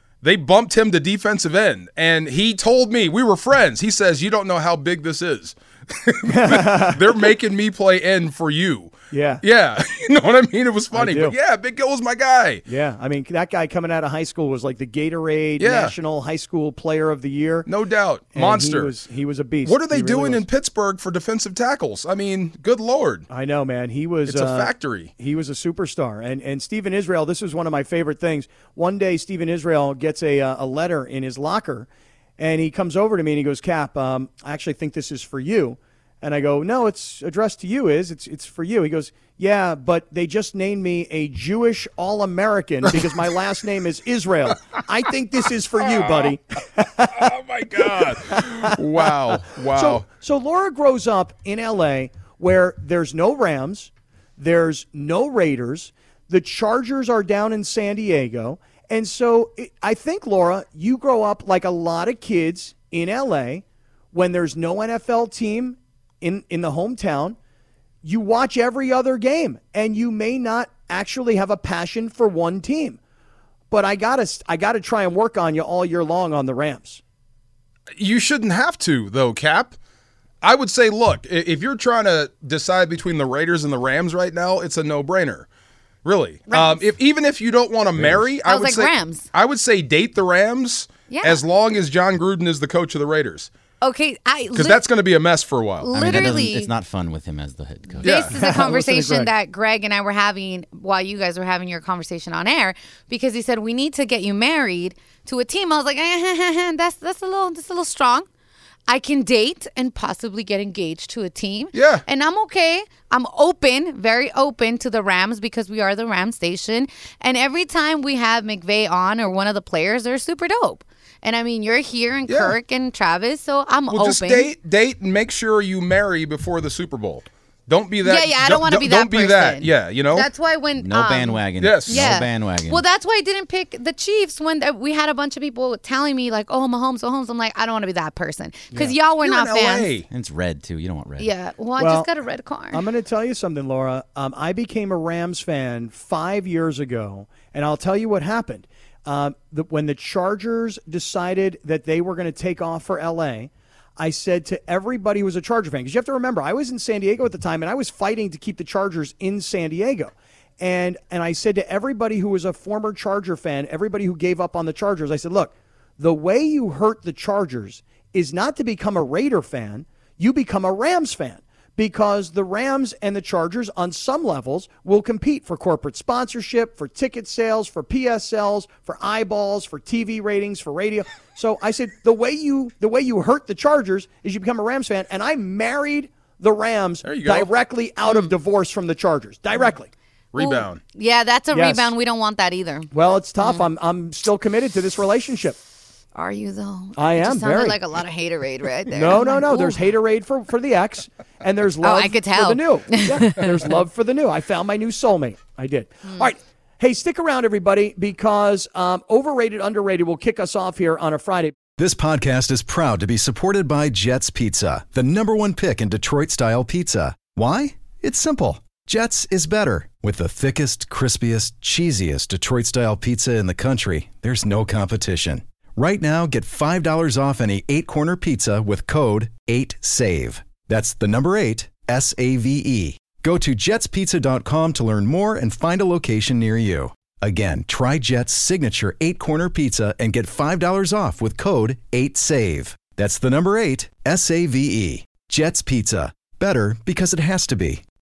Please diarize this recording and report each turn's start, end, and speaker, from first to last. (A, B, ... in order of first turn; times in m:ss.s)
0:00.2-0:12.6 A
0:06.3-0:07.0 B
0:09.1-0:09.4 B
0:10.9-0:11.3 B
0:12.7-0:17.7 B
0:15.6-0:15.9 A
0:17.6-0:19.0 A
0:18.3-0:20.4 B
0:19.6-0:23.3 A
0:23.3-1:07.4 B
0:24.2-0:25.1 A
0:45.8-0:46.3 A
0:47.1-0:50.0 A
1:08.0-1:13.0 B
1:13.7-1:17.0 B
1:18.0-1:19.8 A
1:20.4-1:25.5 A
1:26.0-1:33.5 A
1:26.5-1:26.8 C
1:28.4-1:29.3 C
1:31.1-1:31.4 C
1:33.8-1:34.8 C
1:34.5-1:36.4 A
1:35.8-1:36.7 C
1:35.9-1:38.2 D
1:38.0-1:48.3 C
1:38.0-1:38.3 A
1:38.3-1:39.3 B
1:48.9-2:04.5 C
1:51.7-1:52.0 A
2:02.3-2:02.6 A
2:03.9-2:10.3 A
2:08.0-2:19.9 C
2:10.8-2:12.8 D
2:11.6-2:12.1 A
2:19.2-2:20.0 A
2:20.1-2:21.3 D
2:21.2-2:22.8 C
2:21.8-2:22.1 B
2:22.7-3:09.9 B
3:07.0-3:07.5 A
3:08.0-3:08.3 C
3:10.3-3:10.8 A
3:10.4-3:12.9 C
3:11.5-3:11.9 B
3:12.9-3:15.6 B
3:13.4-3:13.6 C
3:16.1-3:19.8 C
3:17.0-3:17.8 B
3:18.9-3:31.6 B
3:21.8-3:23.6 C
3:31.8-4:07.8 E